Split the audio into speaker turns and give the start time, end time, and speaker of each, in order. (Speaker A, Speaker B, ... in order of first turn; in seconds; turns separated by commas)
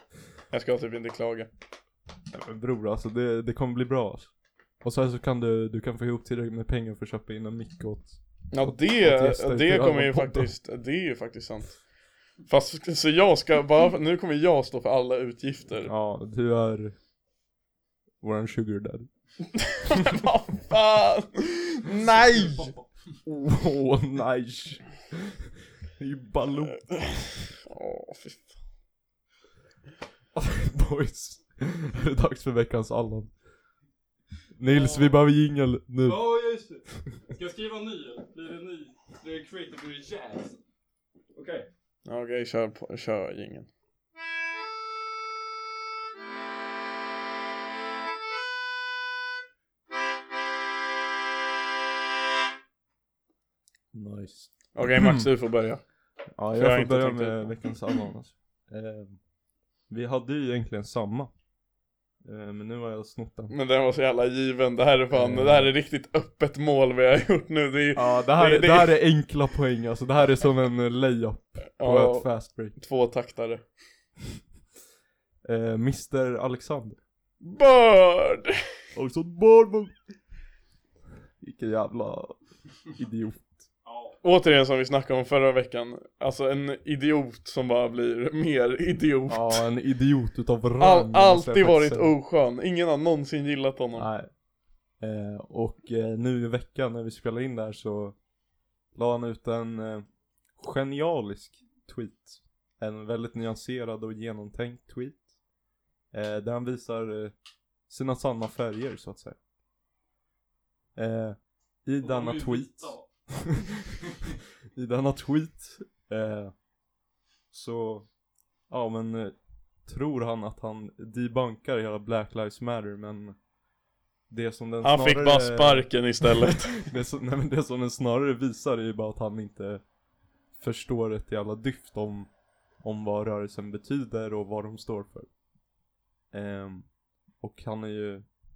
Speaker A: 0.5-1.5, Speaker B: 2.3-10.5, Speaker A: 8.5-11.8, Speaker A: 12.5-15.9, Speaker B: 15.8-16.9, Speaker B: 18.2-19.1, Speaker A: 19.5-22.7, Speaker B: 19.9-20.2, Speaker C: 22.0-22.9, Speaker B: 23.3-26.8, Speaker A: 26.8-28.6, Speaker B: 30.3-33.3, Speaker B: 34.6-36.2, Speaker C: 34.7-35.2, Speaker C: 36.0-40.6, Speaker C: 41.3-41.7, Speaker A: 42.0-43.7, Speaker B: 53.9-55.3, Speaker A: 54.8-55.8, Speaker B: 56.4-59.2, Speaker A: 56.5-57.5, Speaker B: 59.9-61.3, Speaker B: 62.2-63.5, Speaker A: 63.5-68.9, Speaker B: 65.1-65.7, Speaker B: 67.9-72.8, Speaker A: 71.8-73.7, Speaker B: 75.4-77.0, Speaker A: 77.4-78.6, Speaker B: 78.9-79.9, Speaker B: 81.4-83.6, Speaker C: 83.8-84.2, Speaker A: 84.2-89.7, Speaker B: 89.3-92.1, Speaker A: 90.8-94.1, Speaker B: 93.9-94.3, Speaker B: 95.0-98.2, Speaker B: 98.9-100.0, Speaker B: 100.6-105.2, Speaker B: 106.1-107.3, Speaker B: 107.9-109.4, Speaker B: 110.9-113.9, Speaker C: 112.0-113.1, Speaker C: 114.1-114.3, Speaker B: 114.7-116.5, Speaker B: 117.5-118.1, Speaker B: 118.7-119.3, Speaker B: 119.8-123.4, Speaker B: 124.3-129.8, Speaker A: 124.8-126.9, Speaker B: 130.6-132.3, Speaker B: 132.8-135.3, Speaker B: 136.3-136.9, Speaker B: 137.4-138.2